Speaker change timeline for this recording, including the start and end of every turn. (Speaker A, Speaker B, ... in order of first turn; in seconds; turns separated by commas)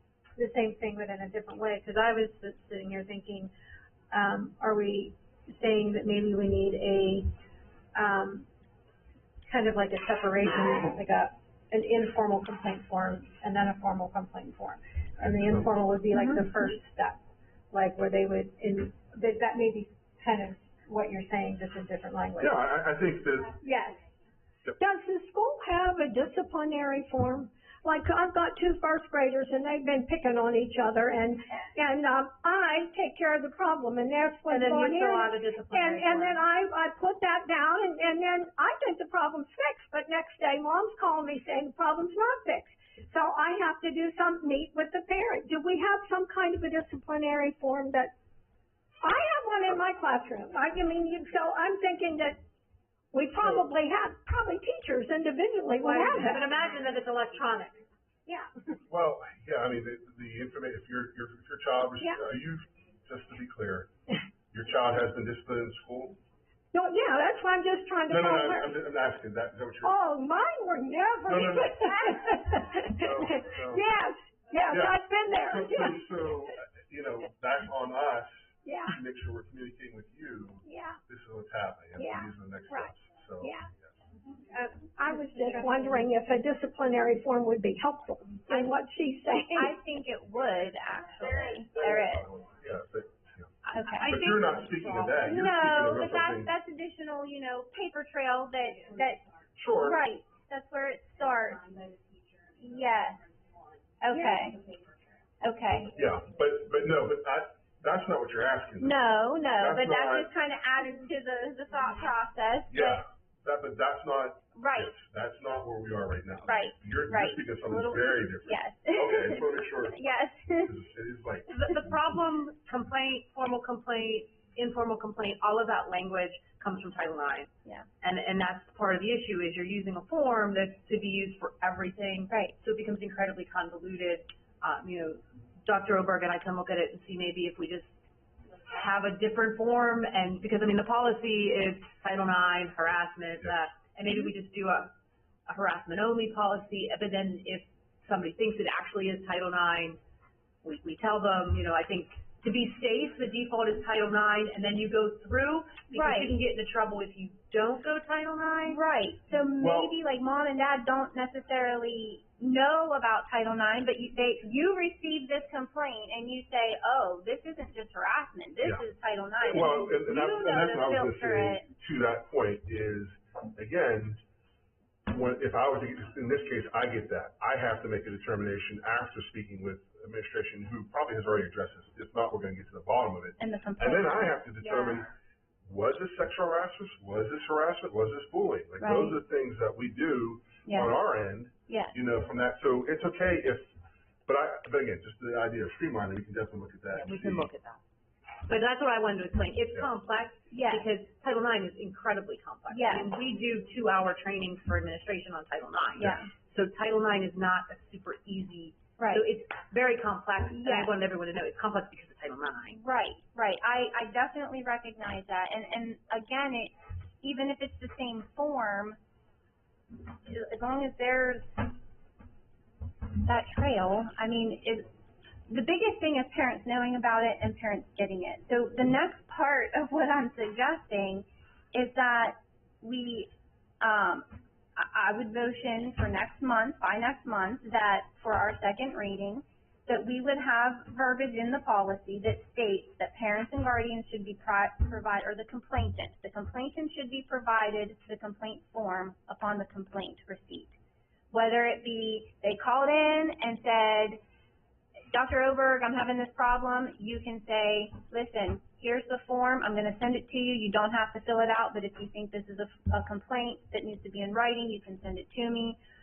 Speaker A: 0.4-3.5, Speaker A: 4.1-7.3, Speaker A: 7.9-8.4, Speaker A: 9.5-22.6, Speaker B: 16.1-16.4, Speaker C: 22.4-23.6, Speaker D: 23.6-24.0, Speaker D: 24.8-48.1, Speaker A: 34.5-36.4, Speaker D: 49.0-52.4, Speaker D: 53.1-56.6, Speaker C: 53.4-53.6, Speaker A: 55.8-57.8, Speaker C: 58.9-63.9, Speaker C: 64.5-66.2, Speaker D: 66.7-68.8, Speaker C: 68.1-70.0, Speaker D: 69.8-76.2, Speaker C: 71.3-73.9, Speaker C: 74.7-84.0, Speaker D: 78.6-79.0, Speaker D: 80.7-81.0, Speaker D: 82.0-83.7, Speaker D: 84.5-89.8, Speaker B: 88.5-88.7, Speaker B: 89.5-92.3, Speaker C: 91.7-93.5, Speaker B: 93.7-94.2, Speaker A: 93.8-95.2, Speaker C: 94.0-96.5, Speaker B: 95.2-99.2, Speaker A: 98.8-99.2, Speaker C: 99.6-100.0, Speaker B: 99.7-101.6, Speaker A: 101.2-105.1, Speaker B: 102.6-103.2, Speaker B: 104.0-104.6, Speaker B: 105.4-105.9, Speaker C: 105.9-110.3, Speaker B: 108.8-113.0, Speaker C: 112.7-120.0, Speaker B: 114.5-114.9, Speaker B: 116.5-120.7, Speaker C: 120.6-121.9, Speaker A: 121.5-137.9, Speaker B: 132.3-132.5, Speaker A: 138.7-144.9, Speaker A: 145.5-150.0, Speaker A: 150.6-158.8, Speaker B: 155.9-156.4, Speaker B: 158.7-171.7, Speaker C: 159.6-159.9, Speaker C: 169.4-174.2, Speaker C: 175.1-185.1, Speaker B: 183.4-185.1, Speaker C: 185.7-193.7, Speaker B: 188.8-189.2, Speaker B: 190.6-190.9, Speaker B: 191.7-192.0, Speaker C: 194.2-197.5, Speaker A: 196.9-197.8, Speaker A: 198.5-212.8, Speaker B: 200.5-200.9, Speaker B: 202.7-203.1, Speaker B: 206.0-206.3, Speaker B: 209.0-209.2, Speaker B: 210.5-210.9, Speaker B: 212.7-219.0, Speaker B: 220.1-221.8, Speaker B: 223.1-224.9, Speaker B: 225.5-250.8, Speaker B: 251.3-254.2, Speaker B: 255.1-265.8